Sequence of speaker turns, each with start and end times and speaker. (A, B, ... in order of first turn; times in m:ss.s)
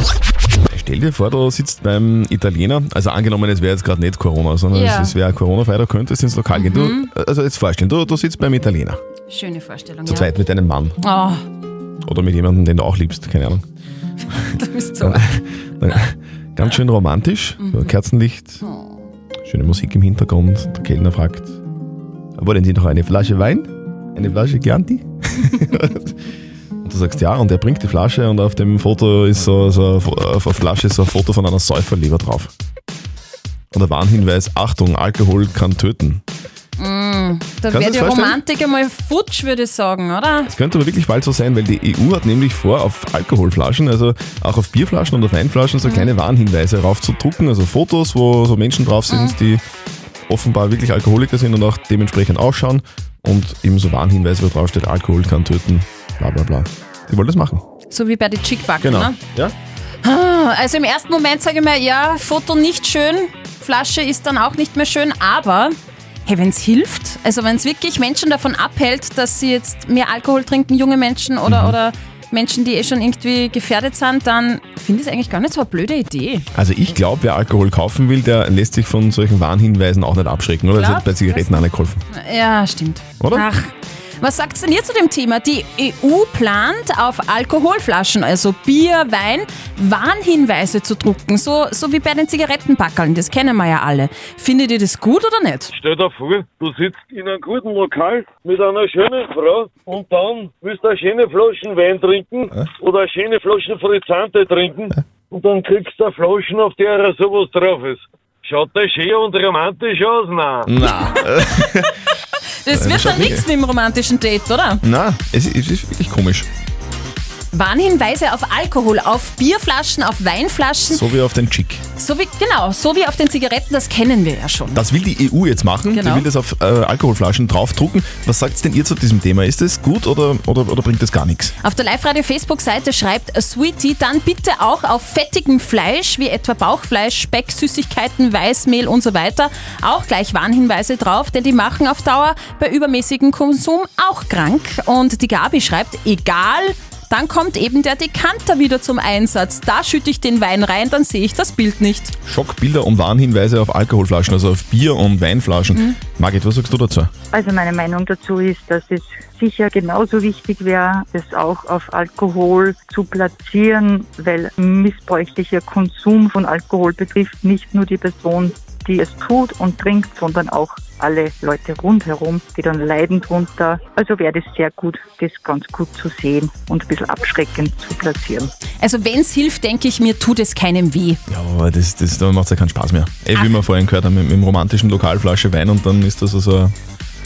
0:00.7-0:09.0 A
0:04.7-0:05.1 B
0:06.5-0:07.1 B
0:09.3-0:10.3 B
0:10.0-0:11.0 A
0:11.0-0:11.4 B
0:12.0-0:13.6 A
0:14.5-0:15.3 B
0:15.0-0:18.6 A
0:17.6-0:17.9 B
0:18.6-0:19.0 B
0:19.4-0:21.6 A
0:22.4-0:26.1 A
0:26.8-0:32.5 A
0:33.7-0:36.2 A
0:36.8-0:40.5 B
0:37.7-0:38.4 A
0:40.5-0:49.6 A
0:45.8-0:46.1 B
0:49.1-0:49.3 B
0:50.3-0:57.6 A
0:57.9-0:59.2 B
0:58.8-0:59.5 A
1:00.0-1:05.7 B
1:06.2-1:16.5 B
1:11.4-1:11.8 A
1:16.5-1:22.0 A
1:20.7-1:35.7 B
1:23.2-1:23.4 A
1:35.8-1:50.6 C
1:50.6-1:51.9 A
1:52.6-1:54.8 B
1:52.7-1:53.4 A
1:54.8-1:56.5 A
1:57.5-2:01.0 B
2:00.9-2:01.8 A
2:02.0-2:04.8 B
2:04.7-2:11.5 A
2:05.9-2:06.2 B
2:11.6-2:32.1 B
2:32.2-2:37.1 A
2:37.3-2:58.5 D
2:58.8-3:01.2 B
3:01.3-3:06.7 A